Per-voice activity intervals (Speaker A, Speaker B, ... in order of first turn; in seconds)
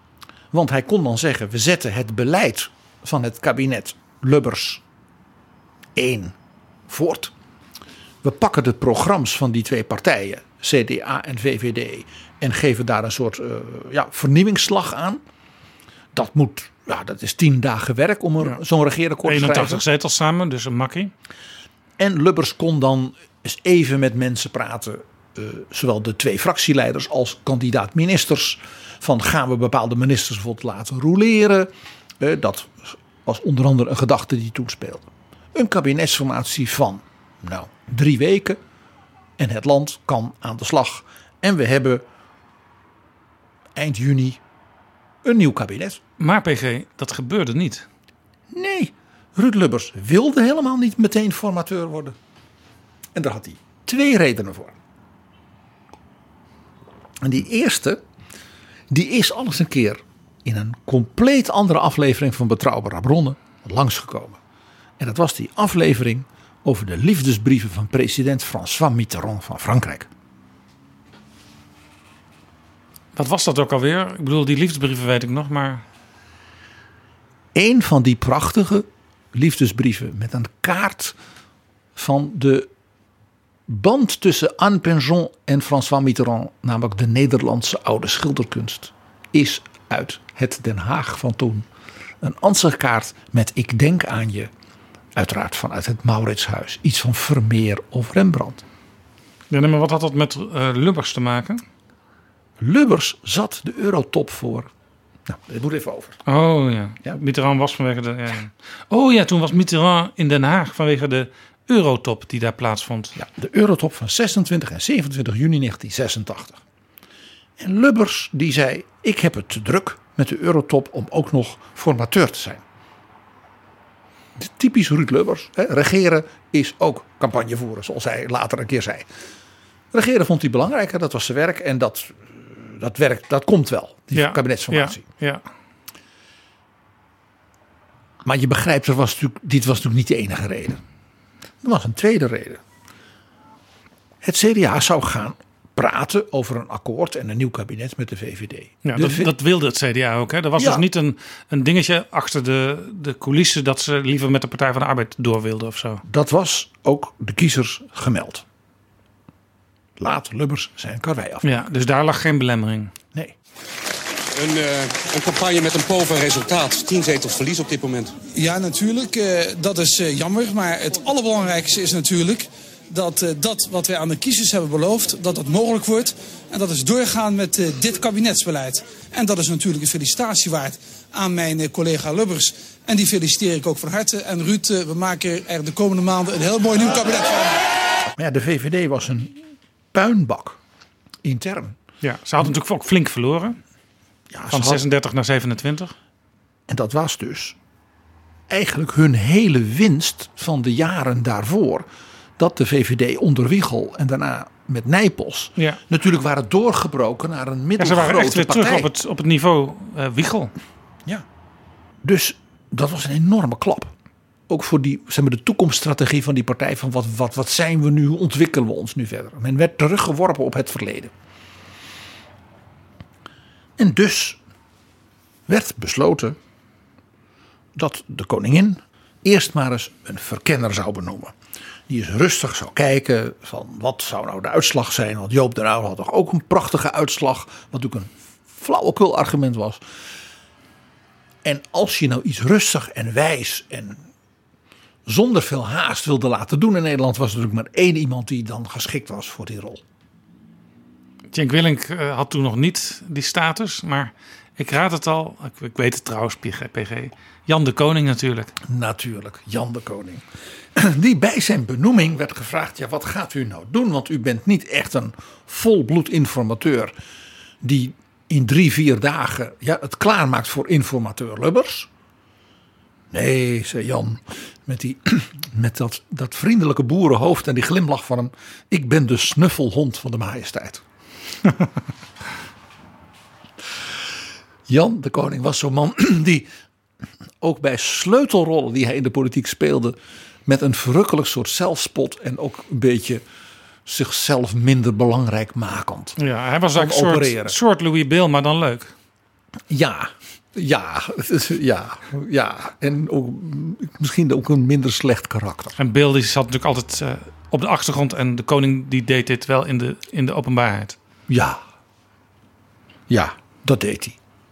Speaker A: 0.5-4.8, 6.0-6.3, 6.9-7.3, 8.2-15.2, 16.1-19.8, 22.0-38.6, 39.4-42.0, 43.7-44.4, 45.2-46.0, 48.5-52.2, 53.1-54.8, 57.2-58.0, 58.9-64.4, 65.0-70.1, 77.5-81.2, 81.9-82.7, 83.7-91.7, 92.2-94.5, 95.1-98.6, 102.6-104.7, 105.2-106.2, 113.2-116.6, 117.6-122.6, 124.3-129.1, 129.9-135.0, 138.2-140.8, 141.6-142.6, 144.2-149.3, 150.6-150.8, 156.0-158.4, 160.0-161.6, 188.1-189.4, 189.9-190.6, 191.2-191.8, 194.3-194.8, 196.7-197.6, 198.5-201.9, 202.4-208.9, 212.0-213.9, 214.5-221.1, 223.8-224.4, 225.5-226.4, 227.7-231.3, 231.9-239.8, 241.4-244.1, 245.1-249.8, 258.6-260.2, 260.7-266.9, 267.6-271.9, 273.1-280.8, 284.7-286.5, 287.4-289.9, 290.4-293.2, 293.9-296.2, 296.7-297.6, 299.7-305.8, 311.3-311.6, 313.1-314.2
Speaker B: 19.2-21.1, 46.2-47.9, 73.1-75.8, 99.5-101.6, 106.2-113.1, 134.1-135.4, 148.8-156.0, 161.4-162.9, 192.0-193.6, 194.5-195.9, 207.8-210.5, 251.3-258.5, 296.2-298.9, 305.8-311.0
Speaker C: 164.3-168.2
Speaker D: 168.2-187.6